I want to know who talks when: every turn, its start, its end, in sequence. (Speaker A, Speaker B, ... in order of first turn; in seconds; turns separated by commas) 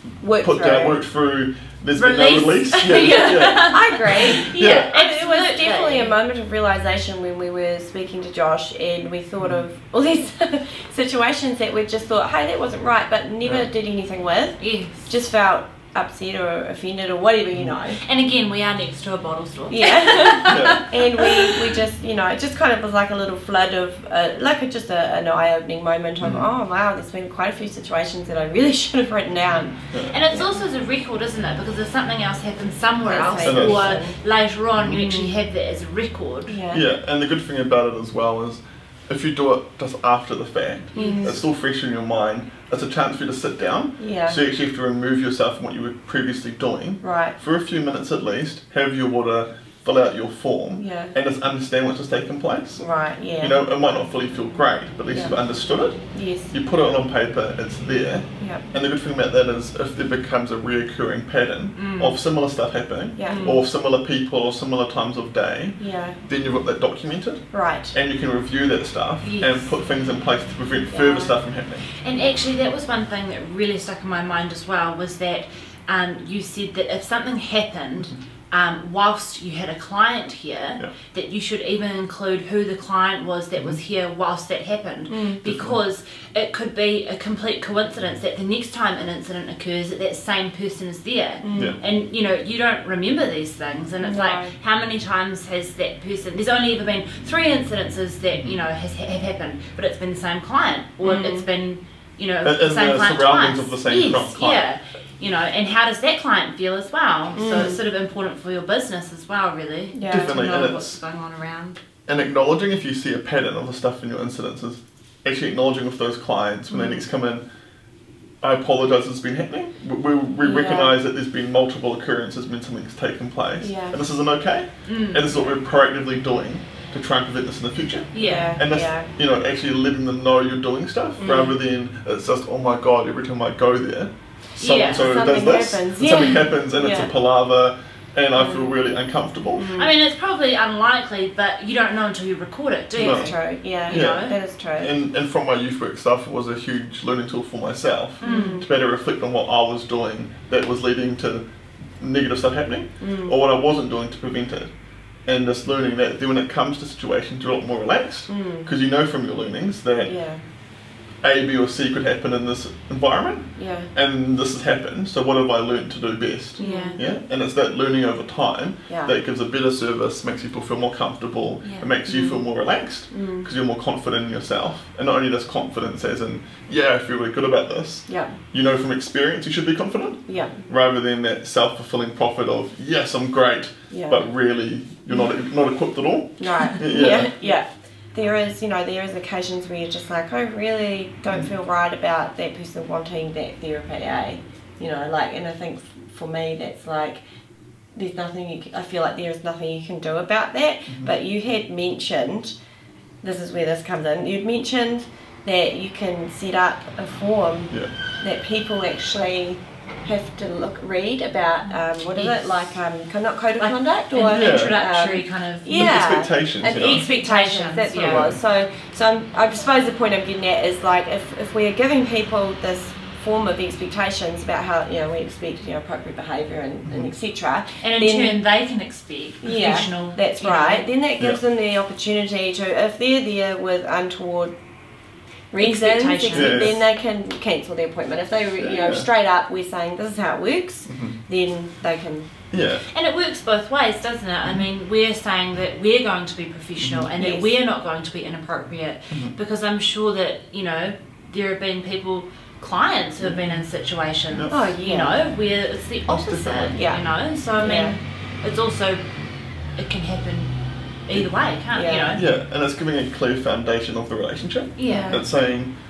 Speaker A: 0.2-1.0, Speaker B: 0.3-4.9, Speaker C: 1.9-6.2, Speaker A: 3.7-18.0, Speaker B: 13.4-13.7, Speaker C: 14.6-15.1, Speaker C: 17.9-21.6, Speaker A: 19.7-30.5, Speaker B: 20.5-20.9, Speaker B: 26.2-26.5, Speaker B: 29.9-30.2, Speaker C: 30.1-36.6, Speaker A: 33.1-34.2, Speaker B: 33.5-33.9, Speaker B: 34.7-35.1, Speaker A: 35.0-35.3, Speaker A: 36.5-36.8, Speaker B: 36.7-71.9, Speaker C: 40.9-41.4, Speaker A: 41.0-41.4, Speaker A: 44.0-44.4, Speaker A: 47.0-47.4, Speaker A: 50.8-51.1, Speaker A: 52.8-53.6, Speaker A: 55.1-55.4, Speaker A: 56.1-56.5, Speaker A: 58.4-58.6, Speaker C: 61.8-62.2, Speaker A: 63.2-63.5, Speaker C: 63.2-63.6, Speaker A: 65.8-66.2, Speaker A: 67.5-67.9, Speaker C: 69.2-69.7, Speaker A: 70.9-71.4, Speaker C: 72.0-111.8, Speaker A: 85.1-85.4, Speaker B: 85.4-85.8, Speaker A: 91.4-91.8, Speaker B: 91.5-91.8, Speaker A: 94.0-94.6, Speaker A: 101.0-101.5, Speaker B: 102.4-104.7, Speaker A: 107.3-107.8, Speaker A: 109.9-110.3, Speaker B: 110.1-111.0, Speaker B: 112.1-117.5, Speaker B: 118.4-139.7, Speaker A: 120.4-121.0, Speaker A: 123.6-124.0, Speaker C: 124.8-125.3, Speaker C: 128.1-128.6, Speaker A: 128.2-129.1, Speaker C: 131.2-131.6, Speaker C: 134.6-135.2, Speaker A: 134.9-137.1, Speaker A: 138.4-138.7, Speaker A: 139.6-139.9, Speaker C: 139.7-144.4, Speaker A: 143.0-144.9, Speaker B: 143.0-143.3, Speaker B: 143.9-151.5, Speaker C: 148.2-148.7, Speaker A: 148.2-148.7, Speaker B: 152.0-154.7, Speaker A: 153.0-153.3, Speaker B: 155.3-160.2, Speaker A: 158.3-158.7, Speaker A: 160.0-160.4, Speaker B: 161.2-187.3, Speaker A: 163.6-163.9, Speaker C: 166.6-167.0, Speaker A: 166.6-167.0, Speaker A: 168.9-169.1, Speaker C: 171.6-171.9, Speaker A: 172.1-172.4, Speaker A: 173.1-173.5, Speaker A: 178.1-178.4, Speaker A: 180.3-180.6, Speaker A: 183.9-184.2, Speaker A: 186.4-197.2, Speaker A: 197.9-202.6, Speaker A: 203.2-228.4, Speaker C: 211.6-212.8, Speaker C: 213.6-216.0, Speaker B: 214.3-214.8, Speaker B: 215.7-217.1, Speaker C: 216.8-218.3, Speaker B: 217.9-218.4, Speaker B: 226.9-227.1, Speaker C: 227.8-230.9, Speaker A: 229.4-234.5, Speaker A: 235.5-242.3, Speaker C: 235.6-236.8, Speaker B: 236.3-236.8, Speaker B: 238.6-239.1, Speaker B: 240.9-241.2, Speaker B: 242.5-242.8, Speaker C: 242.9-259.1, Speaker B: 246.8-247.1, Speaker A: 247.2-247.5, Speaker B: 253.2-253.7, Speaker B: 254.3-254.6, Speaker A: 254.5-255.2, Speaker B: 256.1-256.8, Speaker A: 256.7-257.0, Speaker A: 257.6-258.0, Speaker C: 259.7-260.5, Speaker C: 261.1-262.2, Speaker A: 261.7-262.1, Speaker B: 262.1-265.7, Speaker C: 264.8-265.2, Speaker A: 264.9-265.2